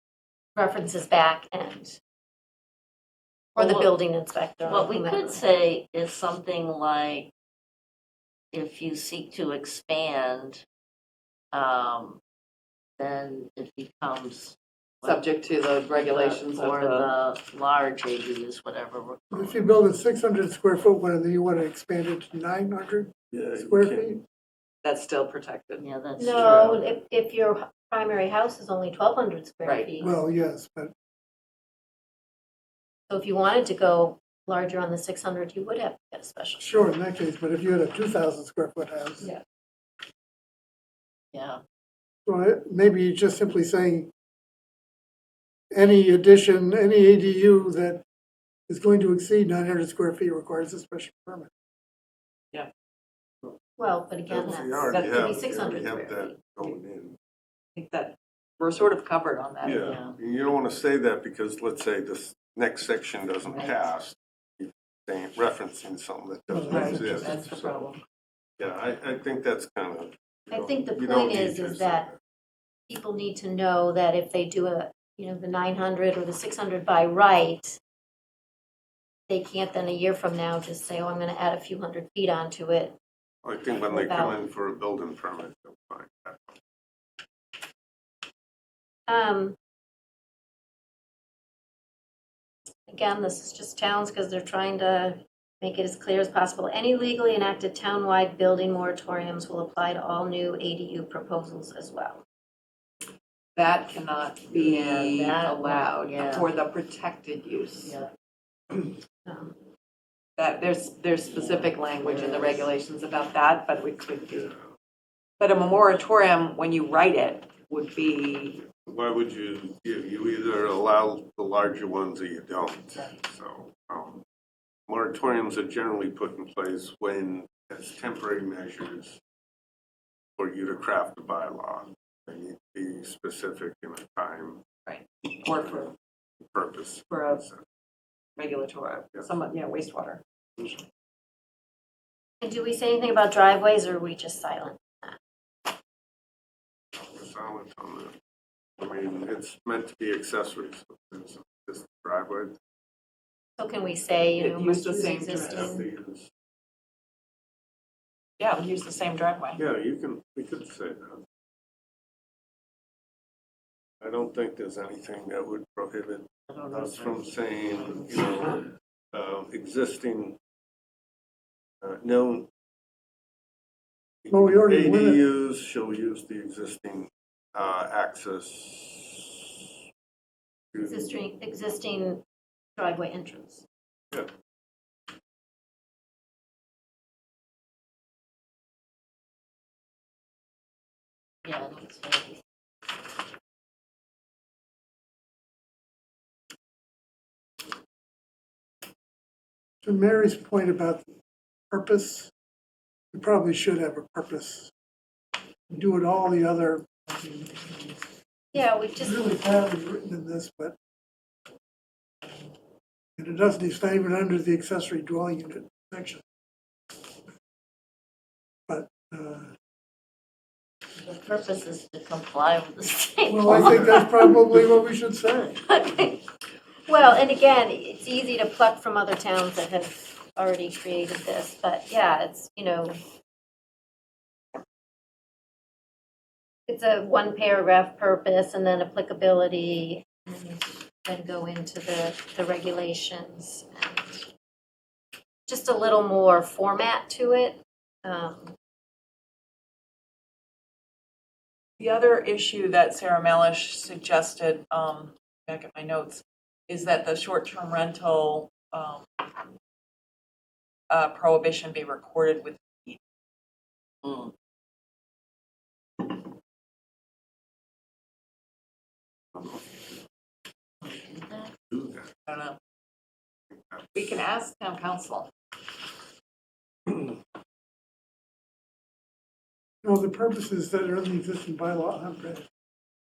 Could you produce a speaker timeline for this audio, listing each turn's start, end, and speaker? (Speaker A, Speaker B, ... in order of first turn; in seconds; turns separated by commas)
Speaker A: 0.6-2.0, Speaker A: 3.6-5.4, Speaker B: 3.6-3.9, Speaker B: 4.7-7.3, Speaker B: 8.5-10.6, Speaker B: 11.5-12.2, Speaker B: 13.0-15.3, Speaker C: 15.0-17.1, Speaker B: 15.9-19.7, Speaker D: 19.3-24.2, Speaker E: 23.3-24.2, Speaker C: 24.8-25.9, Speaker B: 25.8-26.8, Speaker A: 26.2-30.2, Speaker E: 26.4-26.8, Speaker C: 29.6-29.9, Speaker D: 30.0-30.9, Speaker A: 33.1-36.9, Speaker D: 36.6-39.3, Speaker B: 41.3-41.6, Speaker D: 42.3-44.1, Speaker D: 45.7-48.0, Speaker D: 48.7-51.5, Speaker A: 53.8-56.4, Speaker E: 54.3-57.2, Speaker C: 57.8-60.0, Speaker E: 59.6-67.8, Speaker B: 59.7-60.1, Speaker C: 63.5-63.9, Speaker D: 66.5-67.4, Speaker C: 66.7-68.0, Speaker E: 68.6-72.2, Speaker A: 70.5-72.1, Speaker A: 72.9-77.8, Speaker A: 79.3-83.0, Speaker E: 83.4-86.5, Speaker A: 83.7-84.4, Speaker A: 89.1-89.6, Speaker A: 92.9-102.2, Speaker C: 103.6-108.0, Speaker B: 104.5-106.5, Speaker A: 109.2-109.5, Speaker C: 110.4-114.5, Speaker B: 111.4-112.7, Speaker C: 115.4-118.6, Speaker E: 118.7-124.2, Speaker E: 124.9-129.2, Speaker E: 130.4-134.6, Speaker C: 134.9-135.9, Speaker E: 135.6-135.9, Speaker E: 136.4-137.6, Speaker C: 137.1-137.4, Speaker C: 138.4-140.2, Speaker A: 142.4-145.2, Speaker E: 146.9-148.2, Speaker E: 148.8-152.6, Speaker A: 153.6-155.8, Speaker C: 154.4-155.8, Speaker E: 155.5-156.3, Speaker C: 158.4-159.6, Speaker E: 159.6-161.2, Speaker E: 164.0-170.4, Speaker B: 166.5-168.2, Speaker E: 171.8-172.5, Speaker E: 174.2-179.4, Speaker D: 174.3-175.2, Speaker E: 180.7-181.1, Speaker A: 180.8-182.2, Speaker A: 182.8-183.7, Speaker B: 191.4-192.4, Speaker D: 199.8-201.1, Speaker D: 201.7-202.3, Speaker D: 203.1-204.7, Speaker D: 205.7-208.1, Speaker A: 208.5-209.2, Speaker D: 209.0-210.8, Speaker D: 213.2-216.2, Speaker D: 218.7-219.5, Speaker B: 221.0-224.0, Speaker D: 223.3-225.6, Speaker A: 223.5-223.8, Speaker A: 225.7-226.2, Speaker A: 226.9-233.0, Speaker A: 236.7-244.3, Speaker A: 245.5-248.6, Speaker C: 251.8-259.2, Speaker C: 260.9-263.0, Speaker B: 264.0-264.3, Speaker E: 269.4-269.6, Speaker B: 270.8-271.5, Speaker E: 271.7-272.1, Speaker C: 272.3-272.6, Speaker E: 273.5-273.9, Speaker C: 273.9-275.3, Speaker D: 279.8-282.5